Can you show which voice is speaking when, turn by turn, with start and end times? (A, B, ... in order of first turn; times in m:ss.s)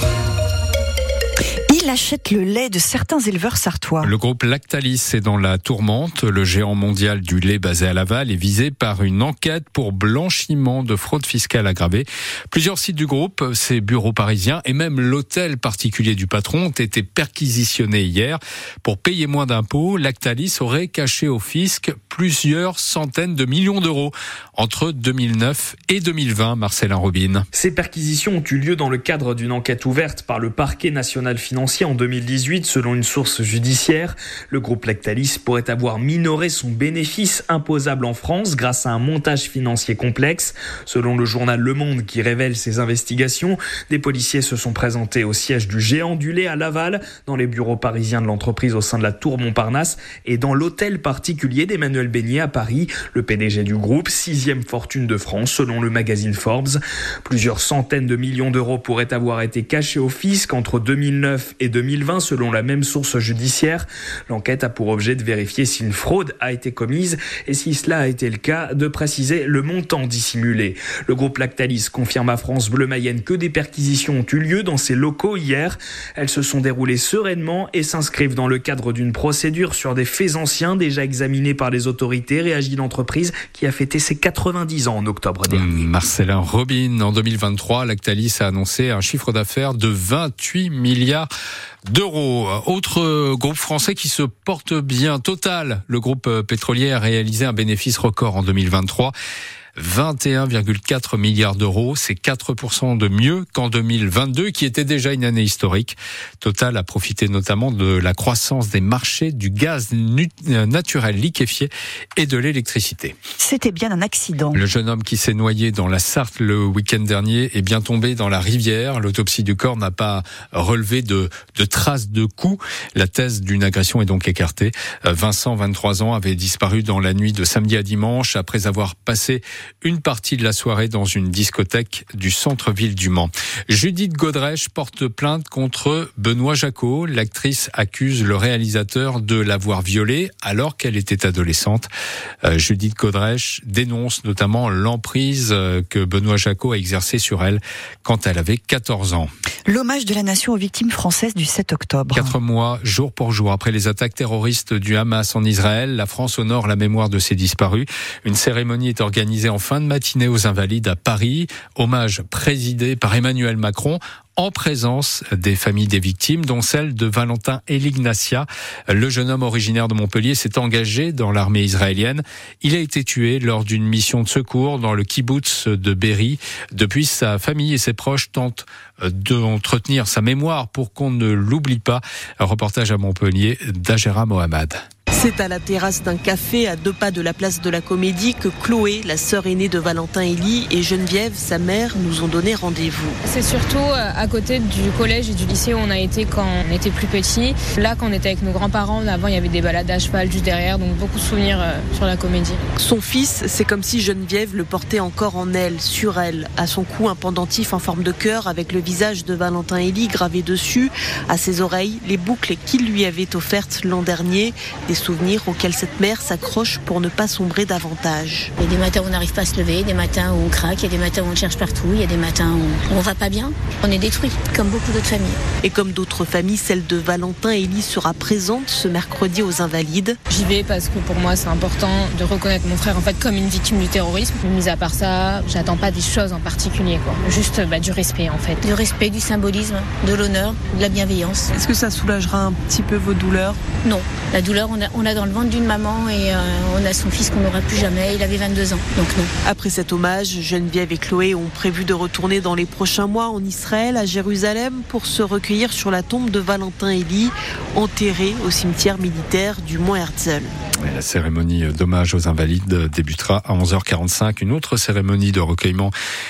0:01.7-0:04.1 A
0:04.0-0:27.4 B
0:27.5-1:25.8 C
1:25.5-1:31.3 B
1:31.9-1:39.1 B
1:39.8-1:53.2 B
1:53.4-1:54.6 A
1:54.5-2:21.9 B
2:22.4-2:29.3 B
2:29.7-2:32.3 A
2:32.1-3:04.8 B
3:05.1-3:13.2 D
3:13.2-3:22.6 E
3:22.8-3:38.5 D
3:38.6-3:45.4 F
3:45.6-3:50.2 D
3:50.3-3:58.7 E
3:58.6-4:01.5 F
4:01.5-4:03.6 D
4:03.8-4:09.3 F
4:09.4-4:20.5 D
4:20.8-4:25.9 B